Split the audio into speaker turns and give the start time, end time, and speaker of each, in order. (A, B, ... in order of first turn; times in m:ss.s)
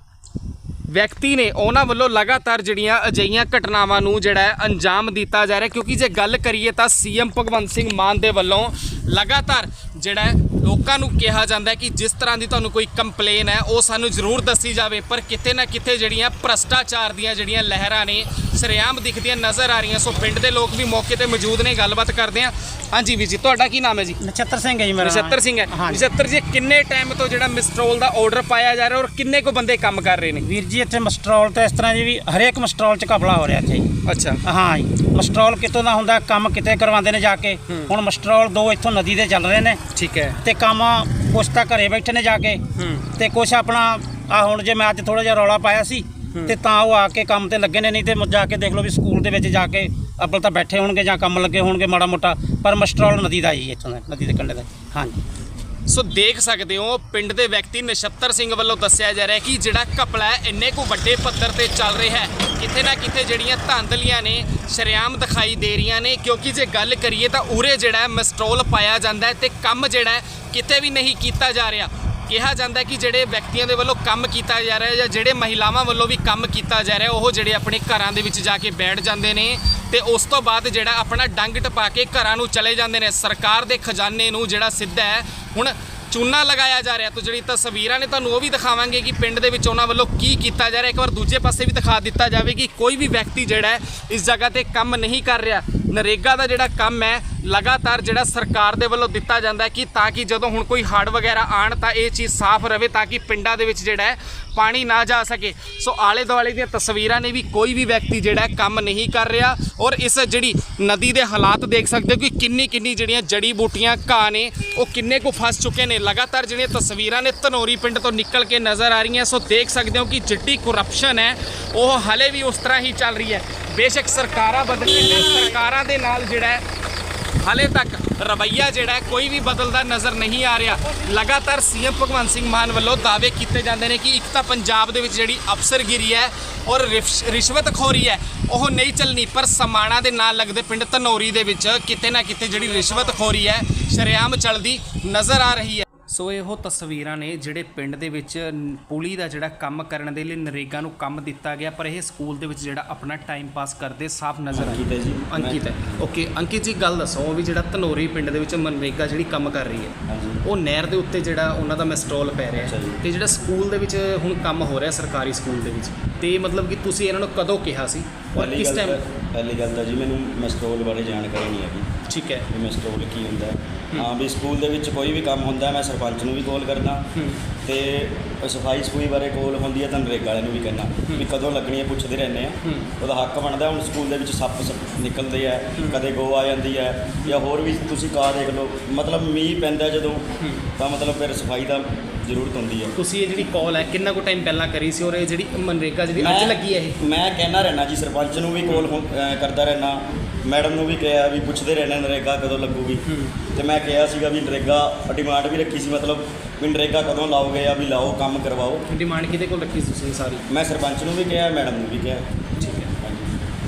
0:00.9-0:24.2 A
0:24.2-0:26.0 B
0:25.0-0:30.4 A
0:30.4-0:33.9 B
0:34.0-0:34.4 A
0:34.4-0:39.8 B
0:39.9-0:40.4 A
0:40.4-0:42.6 B
0:42.8-0:43.0 A
0:43.1-0:55.2 B
0:55.8-2:06.6 A
2:07.4-2:49.0 A
2:34.5-2:36.0 C
2:40.1-2:40.4 C
2:42.6-2:43.0 C
2:48.3-2:51.9 C
2:52.0-2:52.5 A
2:52.5-2:57.0 C
2:57.1-2:57.4 A
2:57.6-3:12.9 C
3:02.6-3:02.9 A
3:05.7-3:06.1 A
3:10.4-3:10.6 A
3:13.0-3:17.0 A
3:16.2-3:23.0 C
3:23.0-3:23.3 A
3:23.5-3:28.8 C
3:28.9-3:30.4 A
3:30.5-3:33.4 C
3:32.6-3:32.9 A